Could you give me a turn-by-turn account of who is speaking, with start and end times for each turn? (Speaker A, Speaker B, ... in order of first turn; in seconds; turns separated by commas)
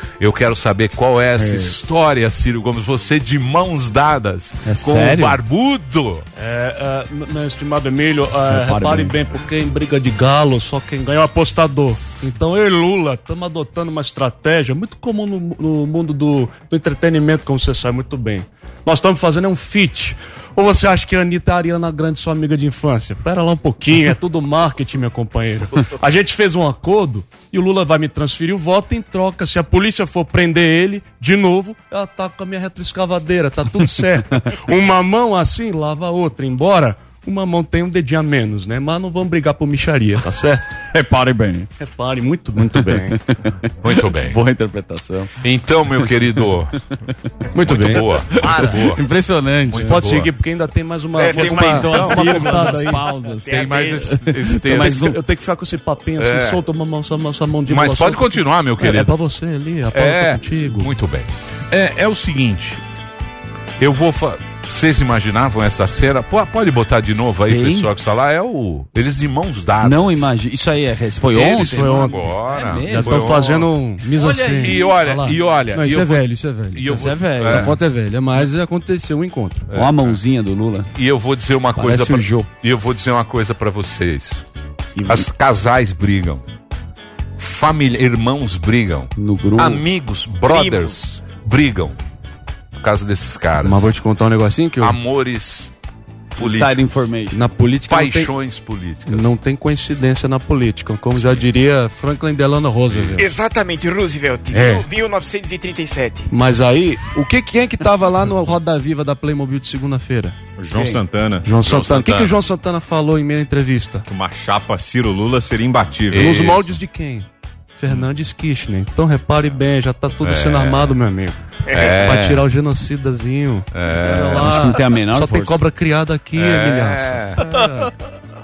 Speaker A: 0.2-6.2, Speaker B: 4.7-5.4, Speaker C: 6.4-40.8, Speaker B: 8.5-9.2, Speaker B: 40.9-41.7, Speaker C: 41.8-43.2, Speaker B: 42.5-45.3, Speaker A: 43.8-44.4, Speaker A: 45.4-46.7, Speaker C: 47.5-48.6, Speaker A: 47.6-49.0, Speaker B: 48.6-50.0, Speaker A: 49.7-50.3, Speaker C: 49.7-53.0, Speaker D: 51.1-52.7, Speaker B: 51.3-55.2, Speaker A: 51.4-52.6, Speaker D: 53.4-54.2, Speaker A: 53.5-55.1, Speaker C: 54.6-61.0, Speaker A: 56.2-56.6, Speaker A: 57.7-59.2, Speaker A: 59.9-62.8, Speaker A: 63.8-70.3, Speaker B: 67.5-67.9, Speaker B: 69.8-73.5, Speaker A: 71.3-73.7, Speaker C: 71.6-72.2, Speaker C: 72.7-79.7, Speaker B: 74.2-74.9, Speaker A: 74.5-77.8, Speaker B: 76.9-77.8, Speaker B: 79.7-80.9, Speaker A: 79.7-80.2, Speaker A: 80.9-84.4, Speaker B: 81.8-82.5, Speaker A: 85.0-86.4, Speaker A: 87.4-92.0, Speaker B: 89.2-89.8, Speaker D: 90.5-90.9, Speaker A: 92.8-93.9, Speaker C: 93.6-95.0, Speaker A: 94.8-95.7, Speaker A: 96.4-96.8, Speaker B: 96.4-97.4, Speaker C: 97.3-98.3, Speaker A: 97.8-99.3, Speaker C: 99.1-103.3, Speaker A: 101.2-101.4, Speaker A: 102.8-103.2, Speaker D: 103.2-106.3, Speaker C: 104.5-104.9, Speaker C: 106.3-110.3, Speaker E: 110.6-111.5, Speaker C: 111.4-114.0, Speaker A: 111.6-112.4, Speaker E: 114.1-116.5, Speaker A: 116.1-116.7, Speaker C: 116.1-127.9, Speaker A: 120.2-121.0, Speaker D: 121.7-122.0, Speaker A: 121.7-122.5, Speaker A: 123.7-124.6, Speaker B: 124.4-125.6, Speaker A: 126.3-127.4